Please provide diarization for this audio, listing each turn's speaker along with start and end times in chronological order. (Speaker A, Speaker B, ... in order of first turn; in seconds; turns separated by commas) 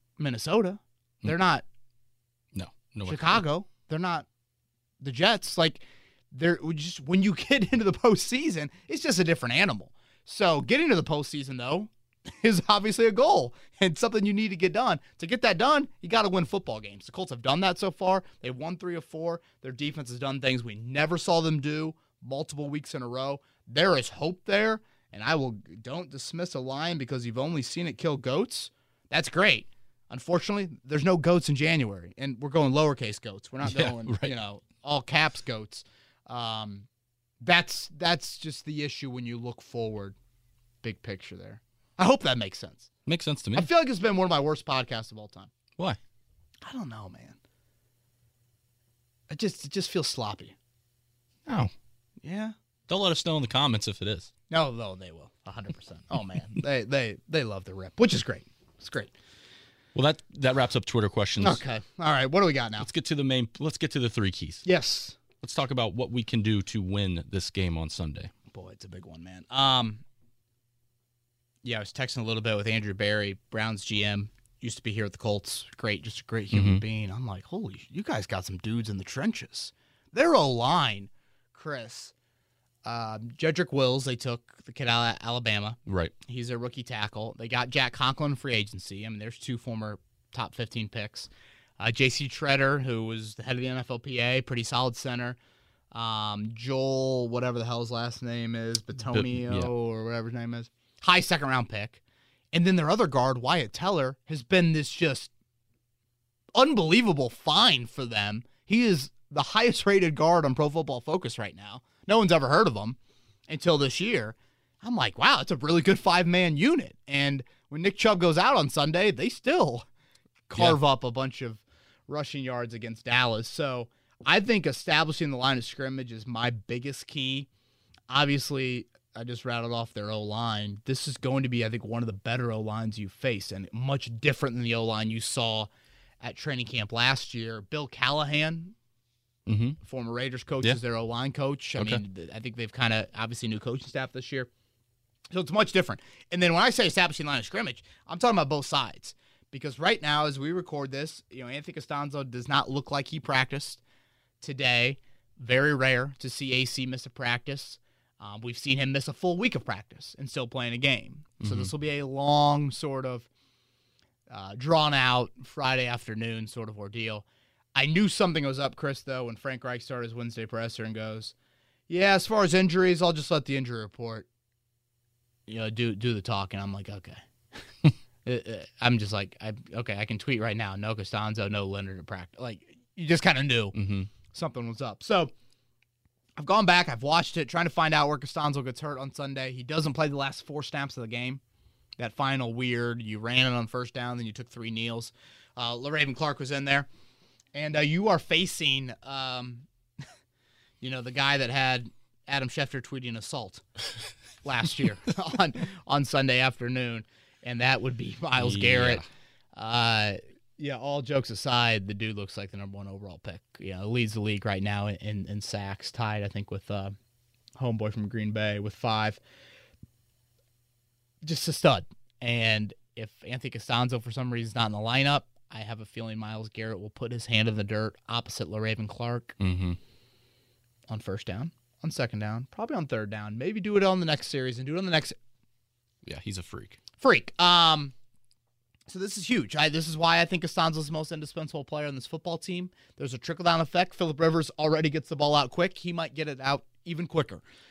Speaker A: 0.2-1.6, Speaker B: 2.5-3.4, Speaker A: 3.0-4.2, Speaker A: 5.0-36.9, Speaker B: 33.6-34.3, Speaker A: 37.4-40.1, Speaker A: 40.8-42.9, Speaker B: 43.0-43.7, Speaker A: 43.5-45.5, Speaker A: 46.6-47.4, Speaker A: 49.3-50.5, Speaker B: 51.5-51.7, Speaker A: 52.2-52.5, Speaker B: 52.9-54.3, Speaker A: 54.5-59.1, Speaker B: 59.9-61.6, Speaker A: 61.4-62.9, Speaker B: 62.8-64.6, Speaker A: 64.6-65.2, Speaker B: 65.4-68.3, Speaker A: 68.5-70.0, Speaker A: 71.6-82.1, Speaker B: 76.5-76.8, Speaker A: 82.8-95.4, Speaker B: 85.8-86.1, Speaker A: 95.9-102.0, Speaker B: 99.1-99.7, Speaker A: 102.5-105.3, Speaker A: 106.5-113.0, Speaker A: 113.5-119.9, Speaker A: 120.5-127.5, Speaker A: 128.1-135.7, Speaker A: 136.2-138.7, Speaker B: 139.4-139.8, Speaker A: 139.8-144.5, Speaker B: 141.8-142.0, Speaker A: 145.3-153.8, Speaker A: 154.4-163.3, Speaker B: 161.4-161.7, Speaker A: 164.3-171.3, Speaker A: 171.9-174.3, Speaker A: 175.5-177.2, Speaker A: 178.2-183.7, Speaker B: 183.7-184.1, Speaker A: 184.3-185.3, Speaker A: 186.4-191.4, Speaker A: 192.0-196.9, Speaker A: 197.5-199.7, Speaker A: 200.8-203.6, Speaker A: 204.4-216.9, Speaker B: 208.4-209.0, Speaker A: 217.6-219.2, Speaker A: 221.2-229.3, Speaker B: 229.4-229.8, Speaker A: 230.9-235.1, Speaker B: 236.0-236.8, Speaker A: 237.0-237.9, Speaker A: 238.9-247.4